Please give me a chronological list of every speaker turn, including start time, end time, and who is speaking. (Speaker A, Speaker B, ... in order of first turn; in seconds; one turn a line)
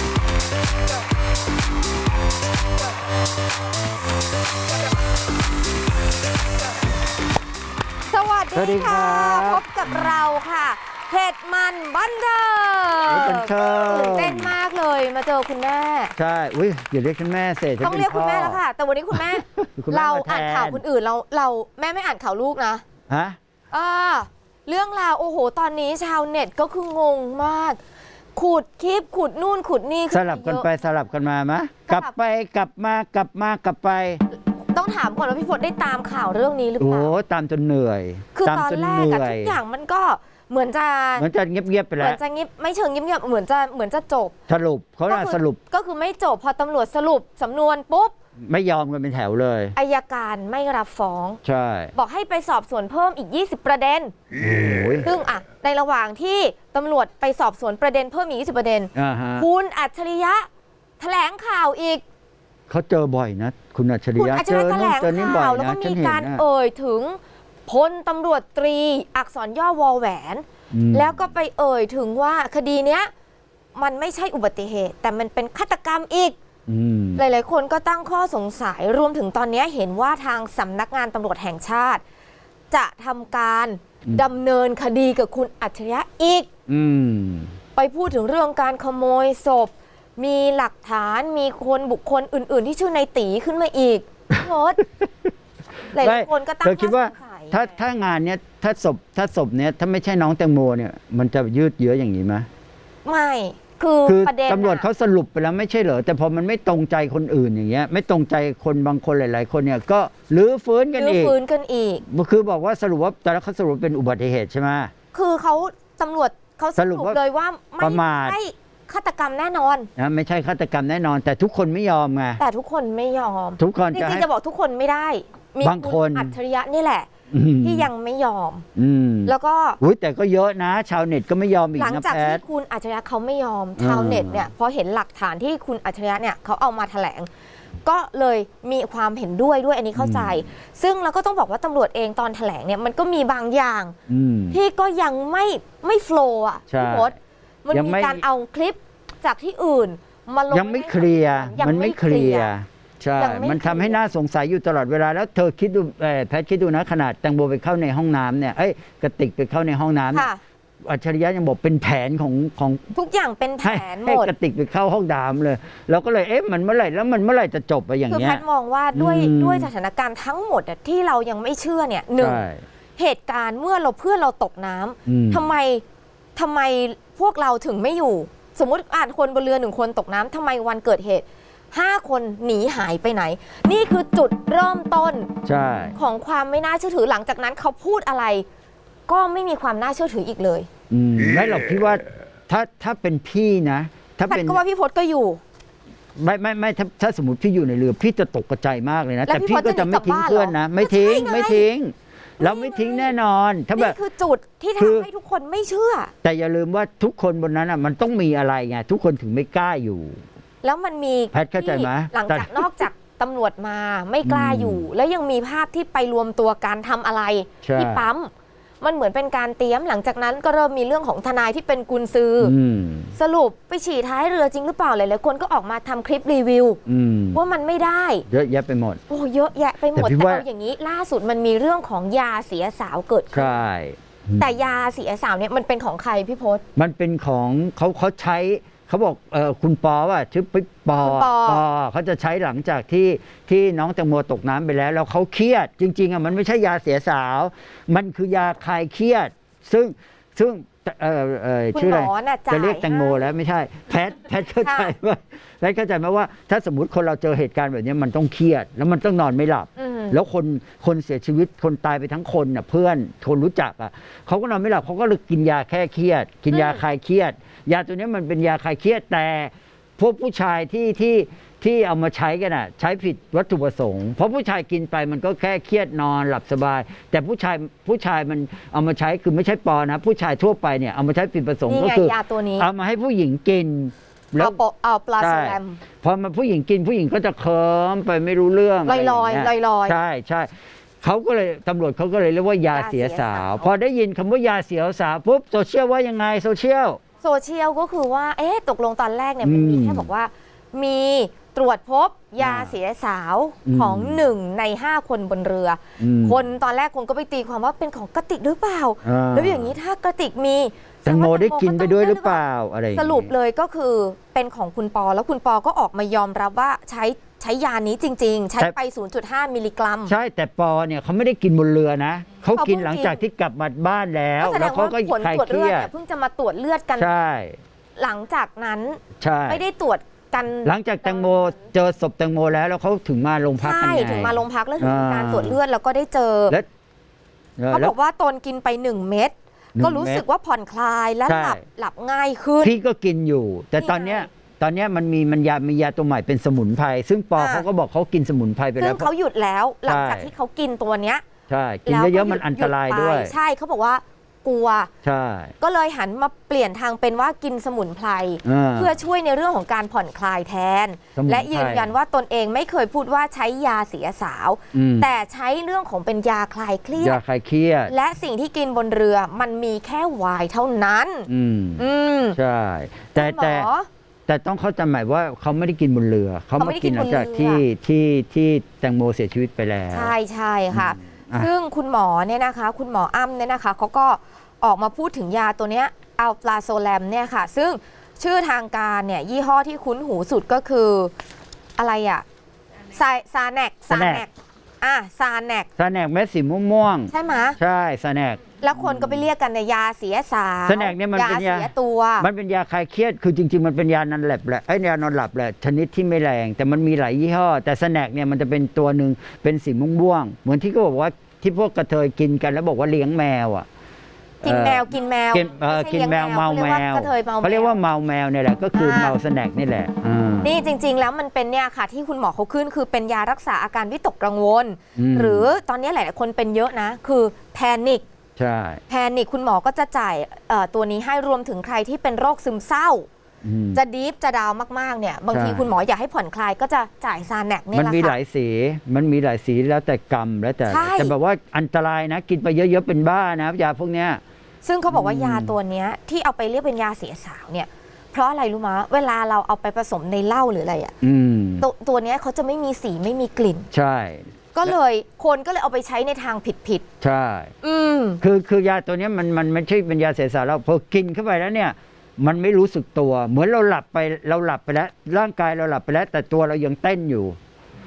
Speaker A: 8.1-16.1
Speaker B: 8.6-10.2
Speaker B: 13.1-14.5
Speaker B: 16.2-18.6
Speaker A: 17.8-22.8
Speaker B: 19.1-20.8
Speaker B: 23.1-23.4
Speaker A: 23.7-27.8
Speaker A: 28.4-30.7
Speaker B: 30.1-34.2
Speaker A: 34.6-37.1
Speaker B: 36.8-39.6
Speaker A: 38.4-41.3
Speaker B: 41.2-42.2
Speaker A: 42.0-44.4
Speaker B: 44.5-45.6
Speaker A: 45.1-48.1
Speaker B: 48.4-49.8
Speaker A: 49.8-51.4
Speaker B: 51.4-51.9
Speaker A: 51.9-54.1
Speaker B: 54.4-55.1
Speaker A: 55.0-60.5
Speaker B: 59.0-59.5
Speaker A: 61.0-62.0
Speaker B: 62.7-66.4
Speaker A: 64.2-73.1
Speaker B: 70.7-71.2
Speaker A: 73.8-76.4
Speaker B: 76.7-77.2
Speaker A: 77.2-82.0
Speaker A: 82.7-86.5
Speaker B: 86.7-87.5
Speaker A: 87.8-94.8
Speaker A: 95.9-97.7
Speaker B: 95.9-102.5
Speaker A: 103.0-104.9
Speaker B: 104.1-111.3
Speaker A: 111.0-112.0
Speaker B: 112.1-114.9
Speaker A: 115.1-119.9
Speaker B: 116.8-117.2
Speaker B: 117.8-118.4
Speaker B: 120.0-122.4
Speaker A: 122.4-127.1
Speaker B: 123.6-124.3
Speaker B: 125.6-126.3
Speaker B: 127.3-127.9
Speaker A: 127.6-128.7
Speaker B: 128.8-132.4
Speaker A: 129.3-129.8
Speaker A: 131.8-137.3
Speaker B: 133.8-134.5
Speaker A: 137.8-143.9
Speaker B: 140.0-140.4
Speaker B: 144.1-144.6
Speaker A: 144.5-147.1
Speaker B: 146.7-147.1
Speaker A: 147.7-152.5
Speaker B: 147.7-148.2
Speaker B: 150.5-160.3
Speaker A: 153.2-154.0
Speaker A: 160.1-160.4
Speaker B: 160.8-162.8
Speaker A: 162.9-164.3
Speaker B: 163.6-169.7
Speaker A: 168.1-172.4
Speaker B: 172.2-172.6
Speaker A: 173.0-175.8
Speaker B: 175.1-175.5
Speaker A: 176.4-185.3
Speaker B: 185.4-185.9
Speaker A: 186.0-188.4
Speaker A: 189.1-190.7
Speaker B: 190.9-194.6
Speaker A: 194.3-195.4
Speaker B: 196.2-204.0
Speaker A: 199.3-201.7
Speaker A: 202.4-203.1
Speaker A: 203.8-206.1
Speaker B: 204.8-205.1
Speaker B: 206.2-210.2
Speaker A: 210.6-222.5
Speaker B: 211.3-212.9
Speaker B: 214.2-214.9
Speaker B: 217.6-218.1
Speaker B: 222.4-223.2
Speaker A: 223.2-226.8
Speaker B: 226.9-227.4
Speaker A: 227.3-228.3
Speaker B: 228.3-229.0
Speaker A: 229.1-233.6
Speaker B: 229.9-230.4
Speaker B: 233.3-234.6
Speaker A: 234.4-236.6
Speaker B: 236.8-284.6
Speaker A: 241.0-241.6
Speaker A: 251.7-253.3
Speaker A: 254.6-254.9
Speaker A: 259.8-260.2
Speaker A: 266.5-266.8
Speaker A: 281.7-282.7
Speaker A: 284.4-285.8
Speaker B: 285.2-290.5
Speaker A: 288.9-290.0
Speaker B: 291.0-297.0
Speaker A: 292.7-293.7
Speaker A: 297.2-312.4
Speaker B: 299.4-300.1
Speaker B: 302.4-302.7
Speaker B: 303.7-304.2
Speaker B: 306.0-306.4
Speaker B: 309.0-309.8
Speaker B: 311.1-313.3
Speaker A: 312.9-320.1
Speaker B: 320.1-325.9
Speaker A: 322.5-323.2
Speaker A: 324.4-327.1
Speaker B: 327.0-327.6
Speaker A: 328.0-331.5
Speaker B: 329.2-329.6
Speaker B: 330.6-335.6
Speaker A: 333.6-336.6
Speaker B: 337.6-337.9
Speaker A: 337.7-342.7
Speaker B: 339.8-340.2
Speaker B: 341.3-341.6
Speaker B: 342.6-349.1
Speaker A: 343.8-344.3
Speaker A: 347.4-347.6
Speaker A: 348.8-351.2
Speaker B: 349.9-350.3
Speaker B: 351.5-353.3
Speaker A: 351.9-354.9
Speaker B: 355.0-355.5
Speaker A: 355.6-367.2
Speaker B: 358.4-358.9
Speaker B: 361.2-361.9
Speaker B: 364.7-365.1
Speaker B: 367.0-367.9
Speaker A: 367.9-372.4
Speaker B: 371.3-373.7
Speaker A: 373.2-373.9
Speaker B: 374.3-380.1
Speaker A: 376.6-377.6
Speaker A: 379.9-391.1
Speaker B: 380.7-381.5
Speaker A: 391.8-392.2
Speaker A: 392.9-395.7
Speaker B: 393.9-394.2
Speaker B: 395.8-399.3
Speaker A: 397.1-397.6
Speaker A: 398.6-402.3
Speaker B: 400.7-413.7
Speaker A: 414.4-417.7
Speaker B: 414.4-420.5
Speaker A: 418.8-419.1
Speaker A: 420.4-428.1
Speaker B: 425.0-425.5
Speaker B: 428.4-428.8
Speaker A: 428.9-433.1
Speaker B: 433.4-433.8
Speaker A: 433.7-438.2
Speaker B: 435.3-435.7
Speaker B: 437.7-444.2
Speaker A: 440.7-441.1
Speaker A: 444.6-450.9
Speaker B: 444.9-445.6
Speaker B: 451.0-451.7
Speaker A: 451.6-453.7
Speaker B: 453.7-454.8
Speaker A: 454.5-456.9
Speaker B: 457.0-457.5
Speaker A: 457.6-458.2
Speaker B: 458.2-467.4